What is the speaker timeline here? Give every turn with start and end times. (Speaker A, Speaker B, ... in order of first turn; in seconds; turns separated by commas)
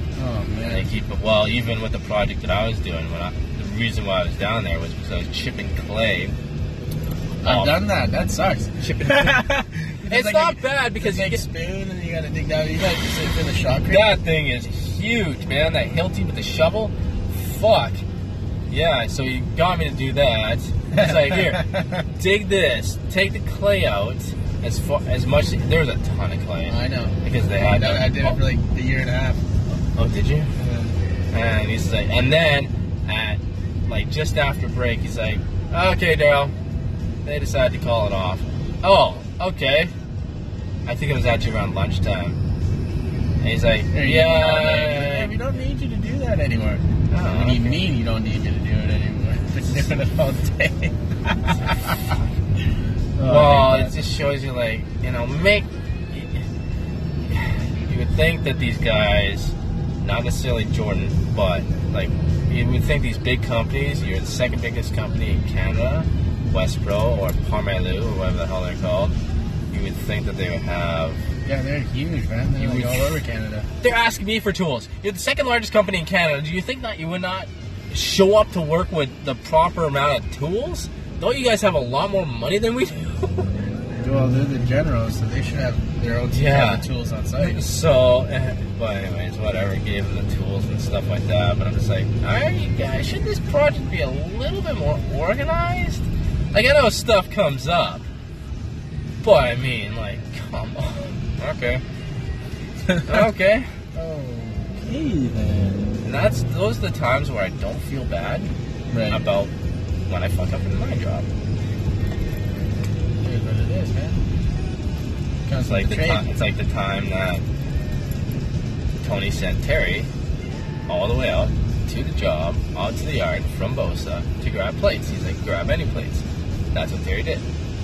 Speaker A: 0.2-0.8, Speaker B: 0.7-6.3, Speaker B: 7.4-7.8, Speaker A: 7.4-14.1, Speaker B: 8.8-9.4, Speaker B: 10.1-11.4, Speaker B: 13.9-18.0, Speaker B: 18.7-28.4, Speaker A: 20.9-22.0, Speaker A: 26.7-29.4, Speaker B: 29.9-30.5, Speaker A: 30.6-30.9, Speaker B: 31.3-36.5, Speaker B: 37.2-39.9, Speaker B: 40.9-42.4, Speaker B: 43.4-45.3, Speaker A: 43.9-46.8, Speaker B: 47.1-47.8, Speaker A: 47.3-52.0, Speaker A: 53.1-54.0, Speaker B: 53.2-56.4, Speaker B: 57.3-69.2, Speaker B: 69.7-71.2, Speaker A: 71.4-73.7, Speaker B: 72.6-73.1, Speaker B: 73.8-83.5, Speaker A: 84.0-87.6, Speaker B: 86.3-86.8, Speaker B: 87.4-98.0, Speaker B: 99.2-101.8, Speaker A: 102.9-103.1, Speaker B: 103.0-103.7, Speaker A: 103.9-106.0, Speaker B: 106.0-108.5, Speaker A: 108.9-109.2, Speaker B: 109.1-109.5, Speaker B: 110.1-111.3, Speaker A: 113.2-114.2, Speaker A: 115.5-116.2, Speaker B: 115.6-117.4, Speaker B: 119.0-120.1, Speaker B: 120.9-127.4